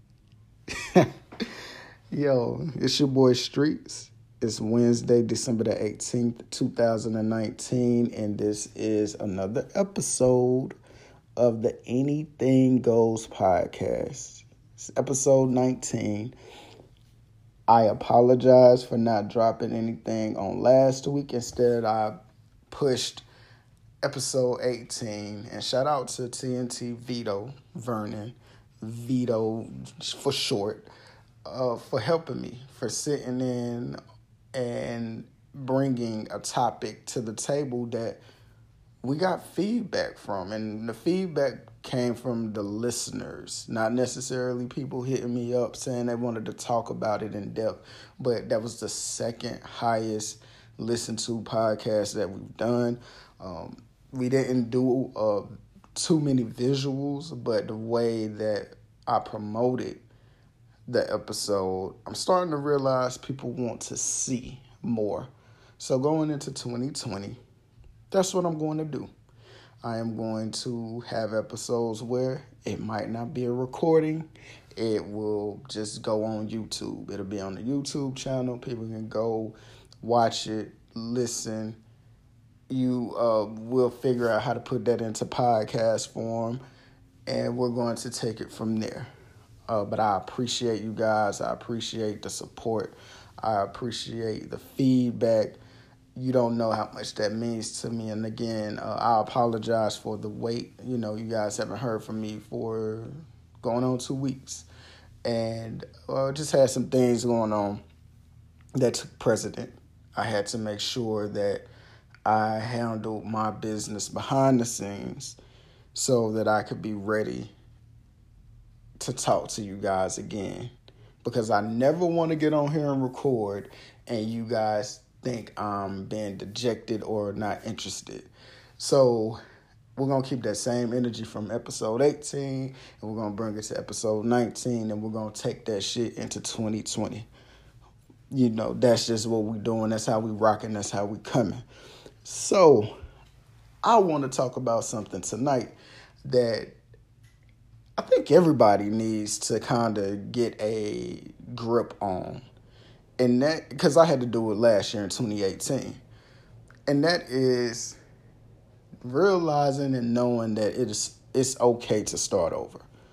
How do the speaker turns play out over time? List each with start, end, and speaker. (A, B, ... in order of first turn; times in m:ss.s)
0:02.1-0:10.8 A
0:11.4-0:16.3 A
0:17.7-0:22.2 A
0:22.7-0:23.2 A
0:24.0-0:30.9 A
0:31.4-0:34.0 A
0:34.5-0:38.2 A
0:39.0-1:00.0 A
1:00.9-1:07.4 A
1:08.1-1:09.1 A
1:09.8-1:21.8 A
1:22.7-1:26.6 A
1:27.3-1:29.1 A
1:29.7-1:35.6 A
1:36.1-1:44.7 A
1:45.2-1:47.8 A
1:48.8-1:51.6 A
1:52.2-1:55.4 A
1:55.9-1:57.5 A
1:59.0-2:00.7 A
2:01.2-2:09.4 A
2:10.0-2:17.3 A
2:18.3-2:21.6 A
2:22.2-2:22.9 A
2:23.8-2:26.8 A
2:28.0-2:32.4 A
2:33.2-2:36.0 A
2:36.9-2:38.0 A
2:39.0-2:42.9 A